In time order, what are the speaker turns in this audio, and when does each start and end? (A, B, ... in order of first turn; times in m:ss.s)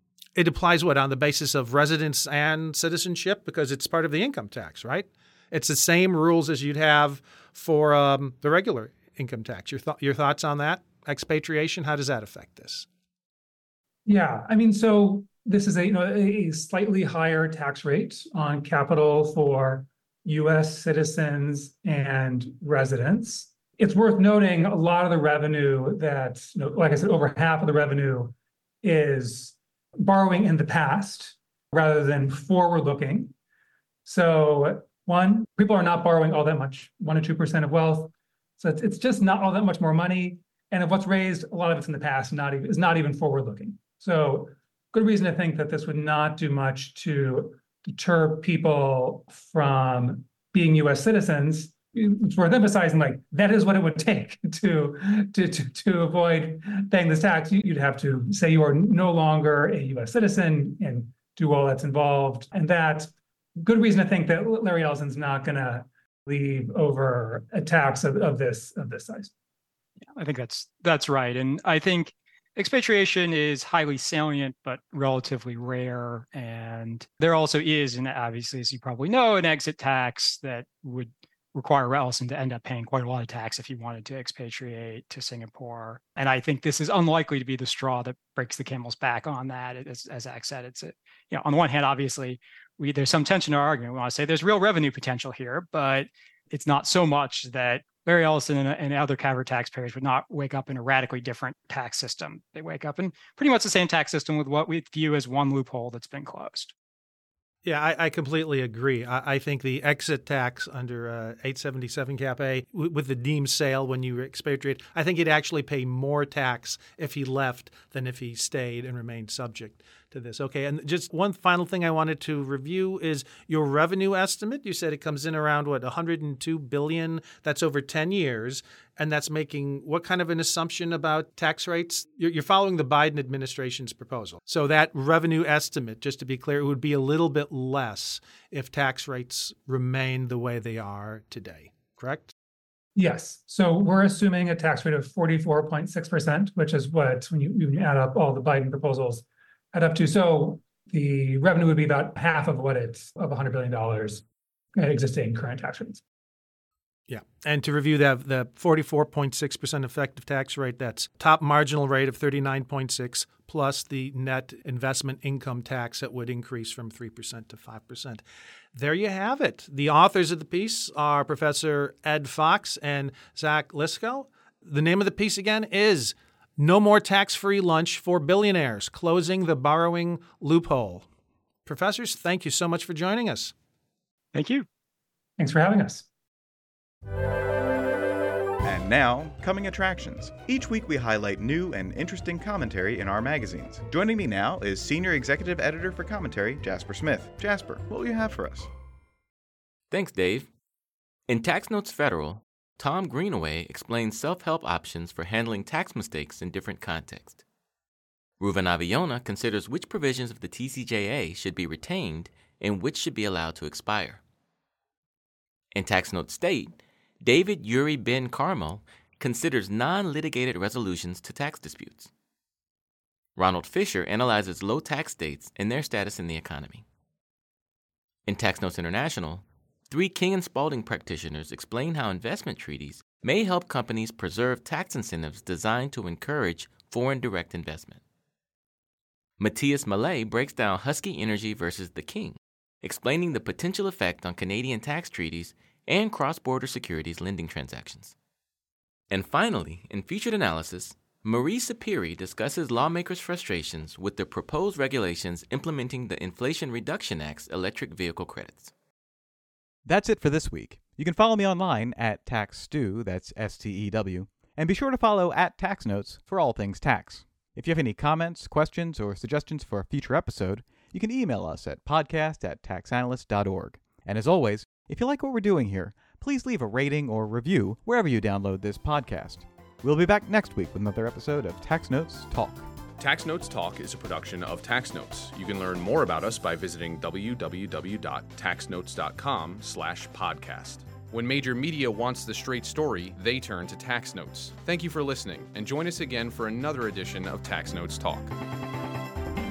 0:00.3-0:12.9 A
0:14.0-0:33.3 B
0:34.0-1:09.3 B
1:10.2-1:46.7 C
1:47.6-2:22.3 A
2:23.0-2:34.2 B
2:34.8-2:36.0 B
2:37.1-2:48.2 A
2:48.7-3:01.0 A
3:01.6-3:03.5 A
3:04.3-3:04.6 C
3:05.4-3:06.0 B
3:08.6-3:18.7 D
3:19.9-3:20.5 E
3:21.3-3:27.4 E
3:28.4-3:34.2 E
3:35.7-3:42.1 E
3:43.4-3:46.8 E
3:48.3-3:58.0 E
3:59.4-4:08.1 E
4:09.1-4:18.7 E
4:19.8-4:42.7 D
4:43.0-4:58.3 F